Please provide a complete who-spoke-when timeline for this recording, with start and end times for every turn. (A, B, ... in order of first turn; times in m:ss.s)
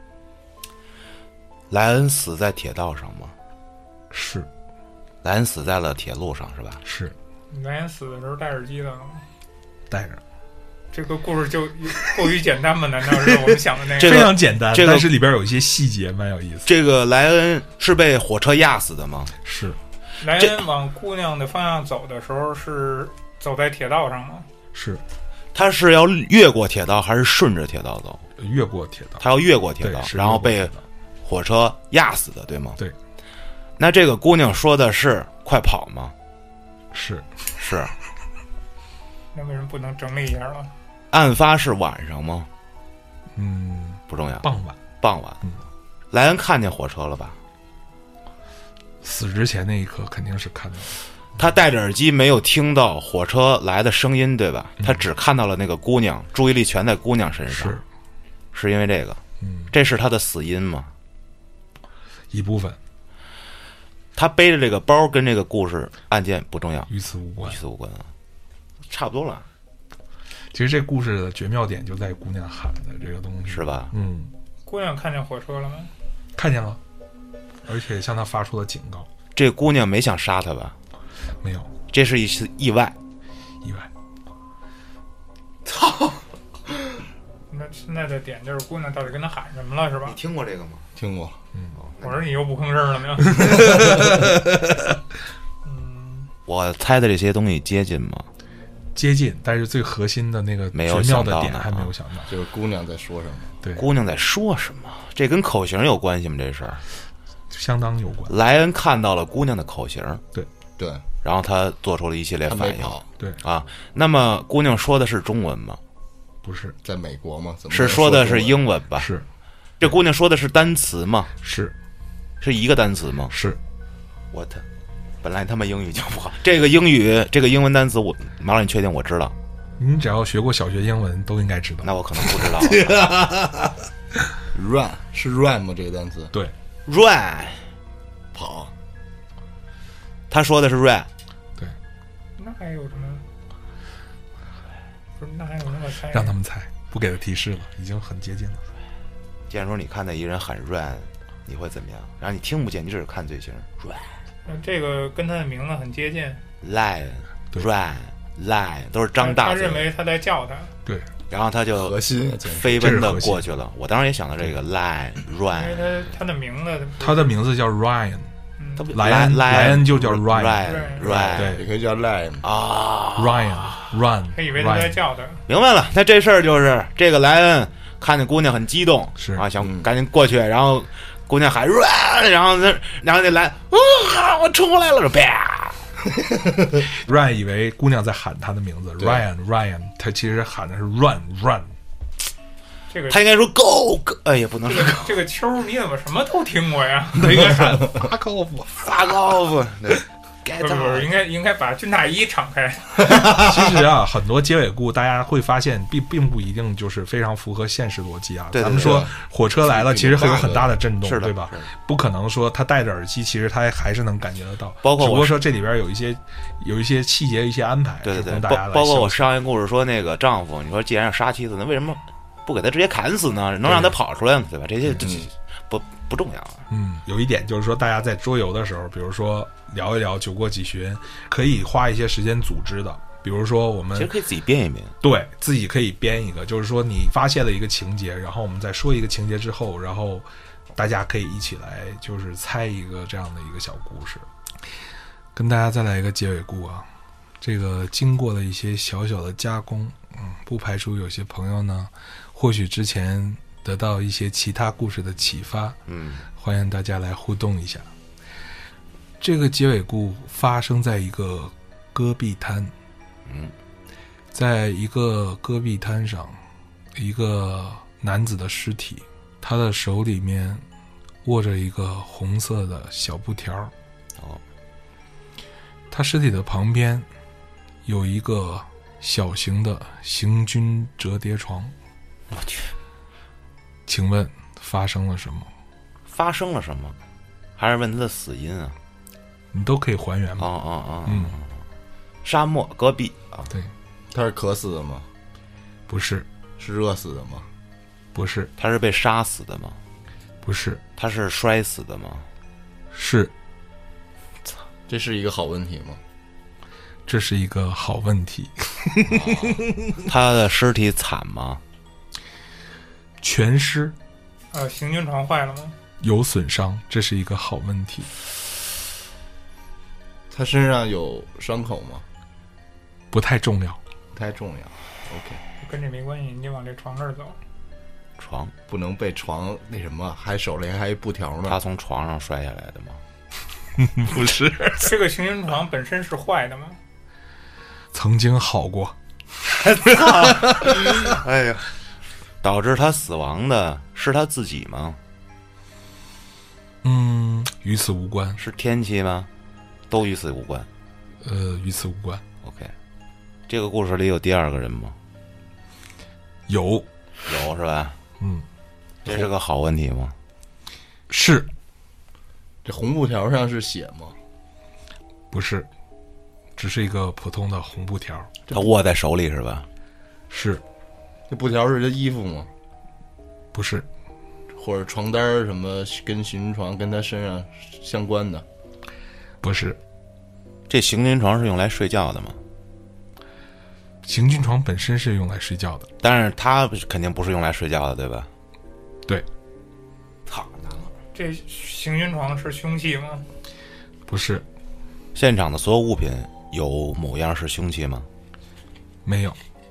0:01.7-0:03.3 A
0:04.1-0:04.5 B
0:05.2-0:06.8 A
0:06.8-0:07.2 B
0:07.5-0:09.2 C
0:09.9-0:10.2 B
0:10.9-0:14.3 C
0:14.0-0:15.1 A
0:14.0-0:16.7 B
0:16.7-0:19.3 A
0:19.4-0:19.8 B
0:20.2-0:24.5 C
0:24.7-0:25.0 B
0:25.5-0:28.2 A
0:28.4-0:29.2 B
0:29.2-0:30.7 A
0:29.8-0:30.8 B
0:31.2-0:32.8 A
0:33.8-0:36.1 A
0:36.9-0:37.4 B
0:37.6-0:37.9 A
0:39.3-0:40.7 C
0:41.1-0:42.5 A
0:43.3-0:44.8 B
0:44.1-0:44.5 A
0:45.0-0:45.4 A
0:46.1-0:47.4 A
0:49.0-0:51.0 B
0:51.4-0:57.8 A
0:57.5-0:57.8 B
0:58.5-0:59.2 A
0:59.4-0:59.7 B
0:59.7-1:00.9 A
1:02.3-1:02.8 B
1:04.2-1:08.1 A
1:06.9-1:07.6 B
1:08.9-1:09.5 A
1:10.5-1:14.3 B
1:13.5-1:13.9 A
1:14.6-1:15.9 C
1:16.4-1:16.8 B
1:17.7-1:19.1 B
1:19.4-1:20.8 A
1:21.4-1:21.7 B
1:21.9-1:23.0 A
1:23.6-1:23.9 B
1:25.7-1:26.2 A
1:27.5-1:30.2 C
1:30.1-1:30.9 A
1:31.0-1:31.4 D
1:31.8-1:32.2 A
1:32.0-1:33.6 C
1:33.2-1:35.0 B
1:35.6-1:36.3 C
1:36.5-1:38.3 A
1:39.0-1:42.3 B
1:40.7-1:41.9 A
1:42.3-1:43.6 D
1:43.8-1:46.8 A
1:47.5-1:48.4 B
1:48.3-1:50.2 A
1:50.8-1:51.0 D
1:51.2-1:55.8 A
1:52.5-1:53.0 D
1:56.4-1:56.8 B
1:56.8-1:58.6 D
1:57.7-1:59.1 A
1:59.0-1:59.2 B
1:59.8-2:01.3 A
2:01.4-2:01.7 B
2:02.4-2:03.3 A
2:03.3-2:03.6 B
2:04.3-2:04.6 A
2:05.2-2:09.4 A
2:09.8-2:11.9 B
2:11.8-2:13.0 A
2:12.7-2:13.5 D
2:14.5-2:16.3 D
2:16.9-2:17.7 A
2:18.3-2:18.7 D
2:20.3-2:21.1 A
2:22.4-2:23.2 C
2:25.2-2:26.4 C
2:26.1-2:28.6 B
2:29.5-2:34.1 A
2:34.5-2:36.4 C
2:36.6-2:39.9 A
2:39.2-2:40.7 C
2:41.3-2:45.9 A
2:41.8-2:43.0 D
2:42.8-2:43.5 B
2:45.5-2:47.3 C
2:47.0-2:48.3 B
2:48.6-2:48.9 C
2:48.8-2:51.6 A
2:48.9-2:50.7 B
2:50.6-2:51.1 C
2:51.0-2:52.4 D
2:51.3-2:51.7 B
2:52.4-2:53.8 A
2:53.2-2:55.0 B
2:54.3-2:55.4 C
2:55.5-3:05.8 A
2:59.2-2:59.5 B
2:59.6-2:59.9 D
3:06.9-3:11.7 B
3:12.9-3:13.2 C
3:13.1-3:15.2 A
3:14.7-3:17.9 C
3:17.2-3:18.9 B
3:18.8-3:21.1 A
3:20.6-3:23.2 C
3:23.2-3:39.2 B
3:28.5-3:29.1 A
3:28.7-3:30.7 D
3:31.0-3:31.7 A
3:34.8-3:35.4 A
3:38.0-3:46.6 A
3:43.7-3:43.9 B
3:44.9-3:45.3 D
3:46.7-3:54.1 B
3:54.0-3:55.0 A
3:55.0-4:04.3 B
4:05.4-4:06.9 B
4:07.4-4:15.8 B
4:15.9-4:16.2 A
4:16.4-4:17.9 B
4:19.2-4:22.7 B
4:23.3-4:23.5 A
4:24.3-4:26.4 B
4:27.0-4:30.6 B
4:31.2-4:33.7 B
4:35.9-4:37.1 B
4:37.8-4:41.7 B
4:42.3-4:42.7 A
4:43.9-4:45.5 B
4:46.1-4:47.0 A
4:47.6-4:48.8 A
4:49.5-4:50.5 B
4:50.4-4:51.5 A
4:51.1-4:51.4 B
4:52.2-4:53.5 A
4:54.1-4:55.1 D
4:55.9-4:56.3 B
4:56.6-4:57.5 D
4:58.1-4:58.5 B
4:58.6-4:59.8 A
5:00.4-5:00.8 B
5:01.0-5:02.3 A
5:02.9-5:03.3 B
5:04.9-5:06.0 D
5:07.1-5:10.0 B
5:10.0-5:11.6 A
5:13.2-5:14.0 B
5:14.5-5:15.8 C
5:16.0-5:18.1 B
5:20.3-5:22.0 D
5:23.1-5:23.8 B
5:24.1-5:25.4 D
5:25.6-5:27.4 C
5:28.2-5:28.5 A
5:28.7-5:31.6 D
5:31.5-5:33.0 A
5:33.8-5:34.9 B
5:34.8-5:36.8 C
5:37.9-5:39.0 B
5:39.5-5:41.7 A
5:39.8-5:41.0 B
5:42.4-5:45.0 A
5:46.8-5:48.4 B
5:48.4-5:49.3 A
5:49.9-5:50.7 A
5:51.2-5:52.2 B
5:52.4-5:52.7 A
5:53.5-5:55.0 A
5:56.5-5:56.9 B
5:57.3-5:58.0 A
5:58.2-5:58.5 B
5:59.0-6:00.1 A
6:01.1-6:01.5 B
6:02.6-6:04.2 D
6:05.3-6:05.7 B
6:06.6-6:08.3 B
6:08.5-6:09.7 A
6:10.3-6:10.6 B
6:11.3-6:12.5 D
6:13.5-6:13.9 B
6:14.5-6:18.4 D
6:19.4-6:19.8 B
6:20.7-6:22.4 A
6:24.0-6:25.9 B
6:26.0-6:28.3 A
6:30.3-6:30.9 A
6:31.1-6:33.3 C
6:34.1-6:34.4 B
6:35.2-6:38.1 A
6:39.0-6:39.4 B